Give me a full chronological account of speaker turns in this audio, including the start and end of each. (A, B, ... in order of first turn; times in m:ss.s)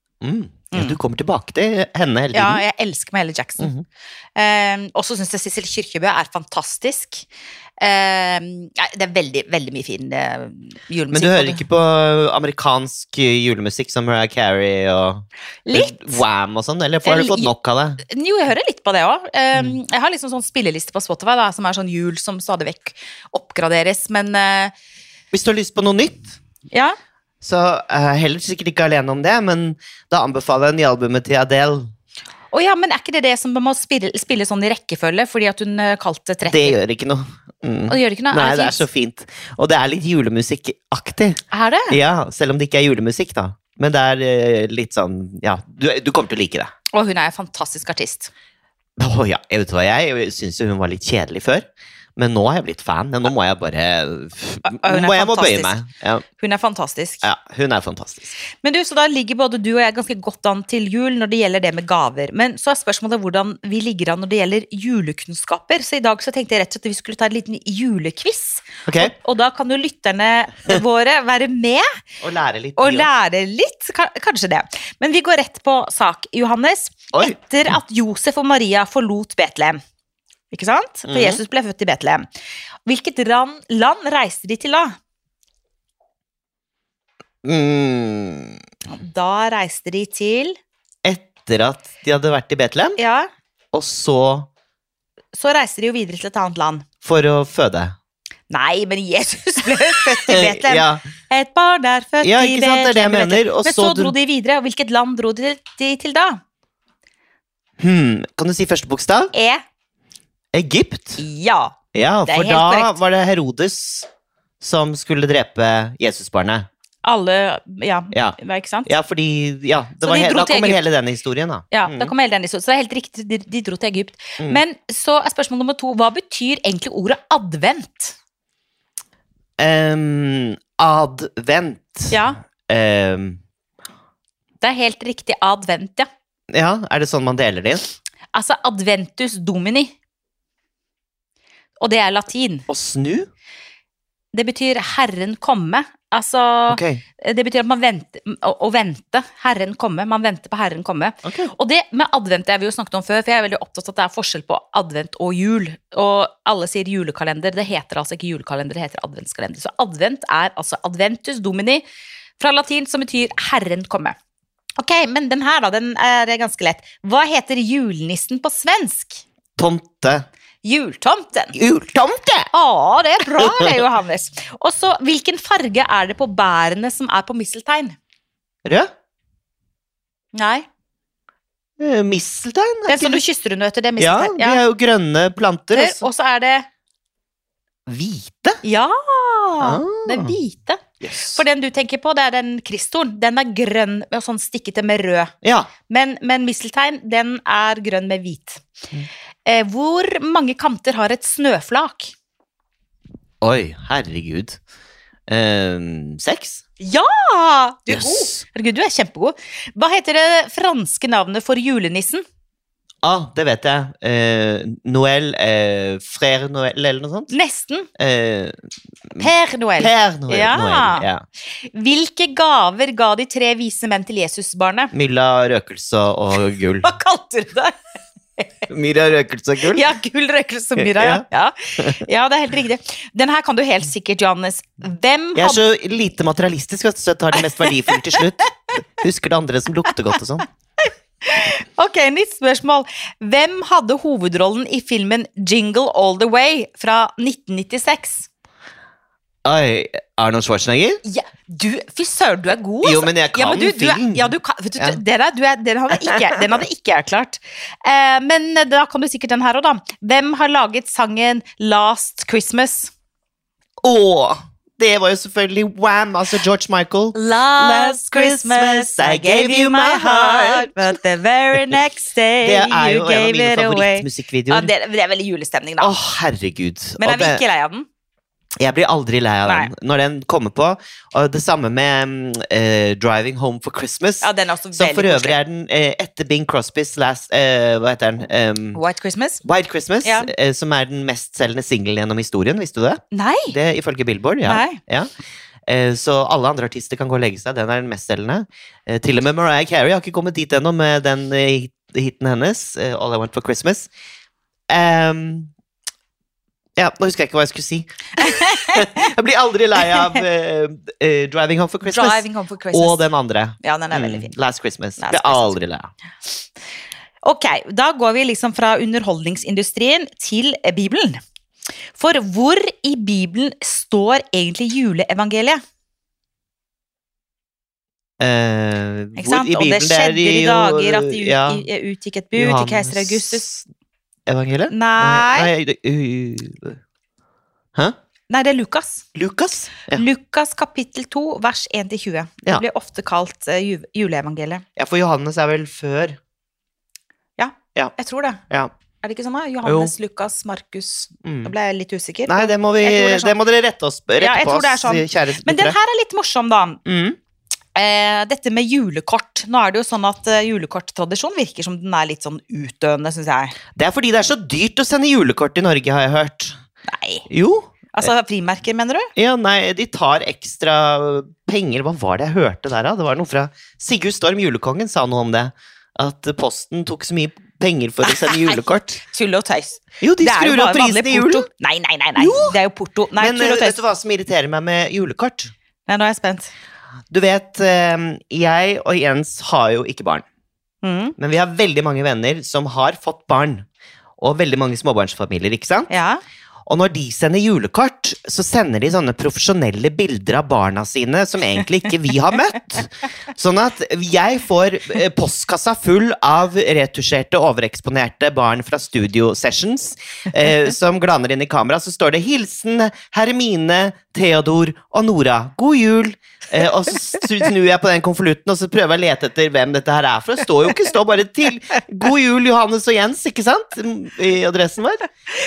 0:00.2-0:02.6 A
0:00.7-0:01.0 B
0:02.3-0:03.7 B
0:03.6-0:03.8 A
0:04.4-0:07.3 B
0:07.8-0:11.6 B
0:11.1-0:18.0 A
0:15.6-0:16.2 B
0:17.0-0:17.5 B
0:18.0-0:24.7 B
0:25.3-0:26.3 A
0:27.4-0:31.9 A
0:32.5-0:36.8 B
0:36.4-0:46.7 A
0:37.9-0:38.8 B
0:41.5-0:42.0 B
0:46.9-0:48.3 B
0:49.0-0:51.6 A
0:52.2-0:56.2 A
0:54.6-0:55.8 B
0:56.3-0:57.2 B
0:57.2-0:58.3 A
0:58.5-1:11.8 B
1:08.9-1:09.1 A
1:12.2-1:13.1 A
1:12.8-1:19.8 B
1:20.5-1:22.3 B
1:21.1-1:21.4 A
1:22.8-1:24.9 B
1:27.4-1:28.6 A
1:28.9-1:30.6 B
1:31.0-1:33.0 A
1:33.0-1:33.3 B
1:33.7-1:34.5 A
1:35.3-1:36.8 B
1:37.0-1:38.0 A
1:38.5-1:46.4 B
1:40.3-1:41.0 A
1:42.2-1:44.2 A
1:47.8-1:49.3 A
1:49.3-1:49.6 B
1:50.5-1:51.2 A
1:51.2-1:53.0 B
1:51.9-1:54.1 A
1:54.6-1:56.7 A
1:57.0-1:58.9 B
1:58.1-2:02.1 A
2:00.0-2:00.8 B
2:01.7-2:08.1 B
2:09.6-2:13.4 A
2:12.1-2:12.4 B
2:14.6-2:16.1 B
2:16.5-2:17.8 A
2:18.3-2:19.9 B
2:21.8-2:22.6 B
2:22.7-2:23.3 A
2:24.3-2:41.8 B
2:26.7-2:27.0 A
2:31.2-2:31.5 A
2:42.4-2:44.1 B
2:44.8-2:49.2 B
2:49.6-2:50.3 A
2:50.6-2:51.6 B
2:51.5-2:52.5 A
2:52.5-2:58.0 B
2:53.3-2:53.7 A
3:00.3-3:00.6 B
3:01.8-3:03.2 A
3:02.9-3:04.6 B
3:04.0-3:06.0 A
3:05.7-3:06.7 B
3:07.9-3:08.6 A
3:08.6-3:15.3 B
3:09.6-3:10.4 A
3:11.0-3:11.4 A
3:15.4-3:15.7 A
3:15.9-3:18.6 B
3:19.4-3:22.1 B
3:23.4-3:24.6 A
3:25.3-3:26.6 A
3:26.8-3:32.2 B
3:27.9-3:28.4 A
3:33.0-3:37.3 A
3:37.3-3:37.9 B
3:38.0-3:38.6 A
3:39.1-3:41.2 A
3:39.2-3:41.0 B
3:41.6-3:44.9 B
3:44.9-3:46.9 A
3:46.8-3:47.7 B
3:48.4-3:48.7 B
3:48.7-3:49.8 A
3:49.6-3:55.6 B
3:50.8-3:51.2 A
3:51.8-3:52.0 A
3:55.3-4:00.4 A
4:01.2-4:08.3 B
4:09.4-4:11.0 A
4:11.0-4:22.9 B
4:12.8-4:15.0 A
4:23.8-4:30.8 A
4:27.1-4:35.9 B
4:32.4-4:34.7 A
4:35.8-4:37.4 A
4:37.0-4:37.8 B
4:38.6-4:48.8 A
4:39.4-4:39.7 B
4:44.2-4:45.4 B
4:48.7-4:49.4 B
4:49.4-4:55.1 A
4:50.0-4:50.3 B
4:53.1-4:53.5 B
4:54.4-4:54.8 B
4:55.7-5:03.9 A
5:04.7-5:05.5 A
5:06.8-5:15.9 A
5:08.2-5:08.9 B
5:09.8-5:10.2 B
5:11.8-5:13.1 B
5:13.6-5:14.3 B
5:15.0-5:15.6 B
5:17.2-5:21.2 B
5:22.0-5:25.6 B
5:28.2-5:31.6 A
5:29.2-5:33.6 B
5:32.3-5:33.5 A
5:34.3-5:36.8 A
5:34.7-5:35.5 B
5:38.3-5:39.0 B
5:39.1-5:40.0 A
5:39.9-5:44.6 B
5:44.8-5:46.2 A
5:47.4-5:48.4 B
5:49.0-5:53.3 B
5:49.6-5:49.9 A
5:51.2-5:51.5 A
5:52.3-5:55.8 A
5:54.2-5:56.8 B
5:56.8-5:57.2 A
5:57.7-6:03.6 B
6:03.8-6:06.5 A
6:06.9-6:07.2 B
6:07.3-6:08.1 A
6:07.9-6:09.1 B
6:09.2-6:19.0 A
6:18.0-6:23.8 B
6:20.0-6:21.4 A
6:22.2-6:22.6 A
6:23.2-6:25.5 A
6:25.9-6:26.5 B
6:27.1-6:30.2 A
6:30.8-6:31.1 B
6:31.2-6:33.6 A
6:34.2-6:35.9 A
6:35.9-6:36.2 B
6:36.7-7:05.0 A